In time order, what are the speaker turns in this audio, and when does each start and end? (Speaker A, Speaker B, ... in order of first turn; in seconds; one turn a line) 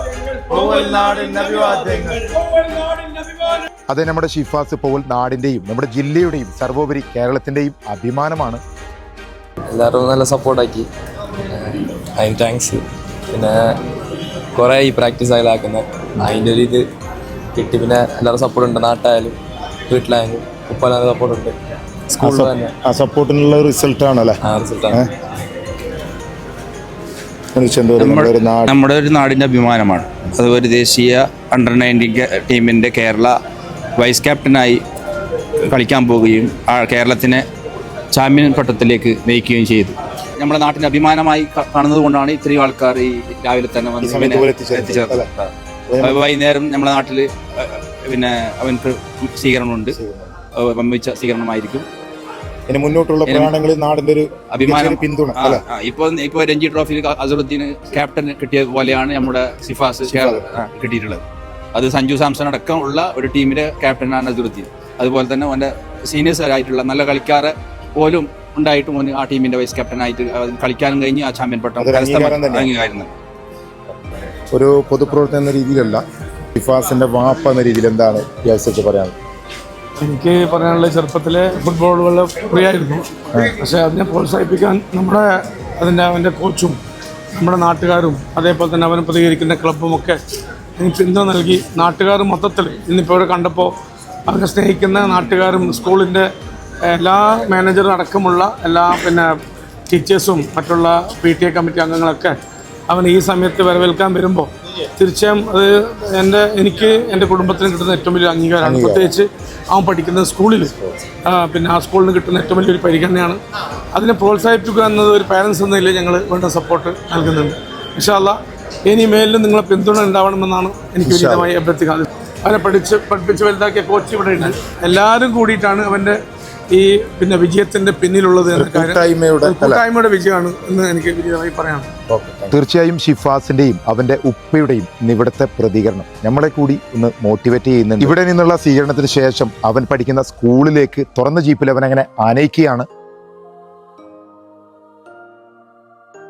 Speaker A: 0.5-2.3
Speaker B: 2.5-3.6
Speaker A: 3.9-8.6
Speaker C: 9.6-10.9
Speaker C: 11.5-13.6
Speaker C: 14.5-16.8
Speaker C: 17.5-19.4
Speaker C: 19.9-21.6
Speaker C: 22.1-22.7
Speaker A: 22.2-24.4
Speaker C: 24.4-25.0
Speaker A: 27.5-28.7
Speaker D: 28.0-33.4
Speaker D: 34.0-34.8
Speaker D: 35.7-37.4
Speaker D: 38.1-50.0
Speaker A: 44.0-45.3
Speaker A: 45.9-46.2
Speaker A: 49.9-50.3
Speaker D: 50.5-51.9
Speaker A: 52.7-55.6
Speaker D: 53.2-53.5
Speaker D: 54.5-61.2
Speaker A: 60.1-60.4
Speaker D: 61.7-73.1
Speaker A: 71.8-72.7
Speaker A: 74.5-76.0
Speaker A: 76.5-79.1
Speaker B: 80.0-86.8
Speaker B: 87.4-90.2
Speaker B: 90.8-93.7
Speaker B: 94.3-96.3
Speaker B: 96.8-99.3
Speaker B: 99.9-102.3
Speaker B: 102.9-110.7
Speaker A: 108.6-109.0
Speaker A: 110.6-111.0
Speaker B: 111.2-113.4
Speaker B: 113.9-126.2
Speaker A: 121.0-121.5
Speaker B: 126.7-131.9
Speaker A: 128.5-129.8
Speaker A: 132.1-142.9